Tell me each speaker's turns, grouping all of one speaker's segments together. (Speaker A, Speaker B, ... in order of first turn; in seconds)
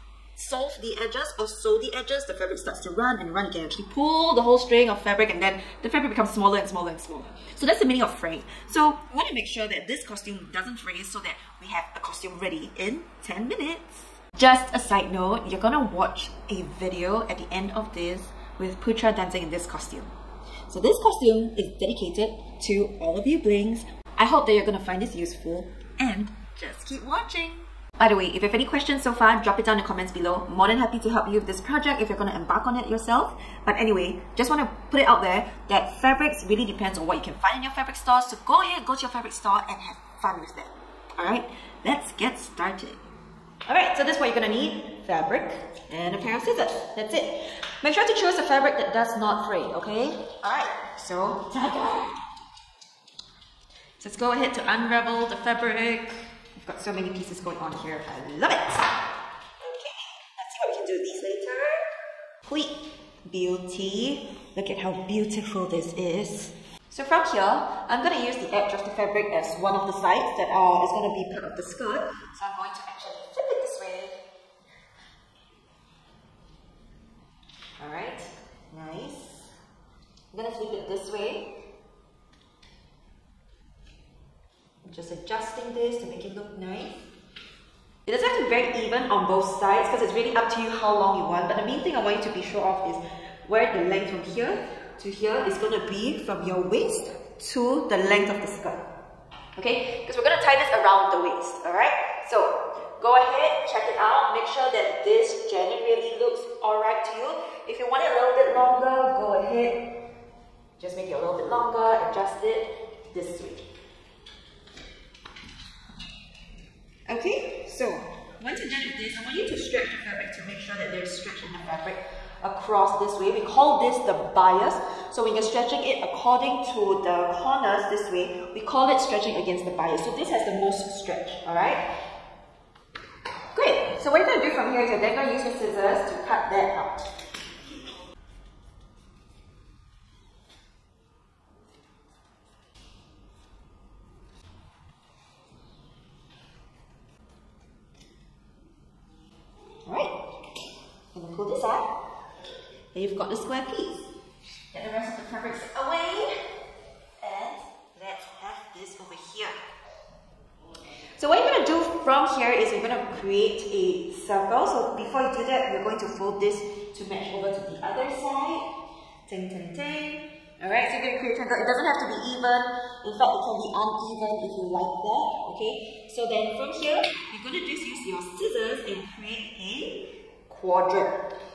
Speaker A: 0.4-20.1, 20.7-43.0, 43.7-52.2, 54.0-58.9, 59.6-61.8, 62.5-74.2, 77.8-79.5, 80.3-81.5, 84.8-87.0, 88.1-98.9, 99.6-109.8, 110.8-113.7, 117.1-131.8, 133.5-137.1, 149.9-150.2, 151.1-151.9, 152.9-154.1, 154.7-156.3, 157.2-159.6, 161.2-168.7, 169.3-181.2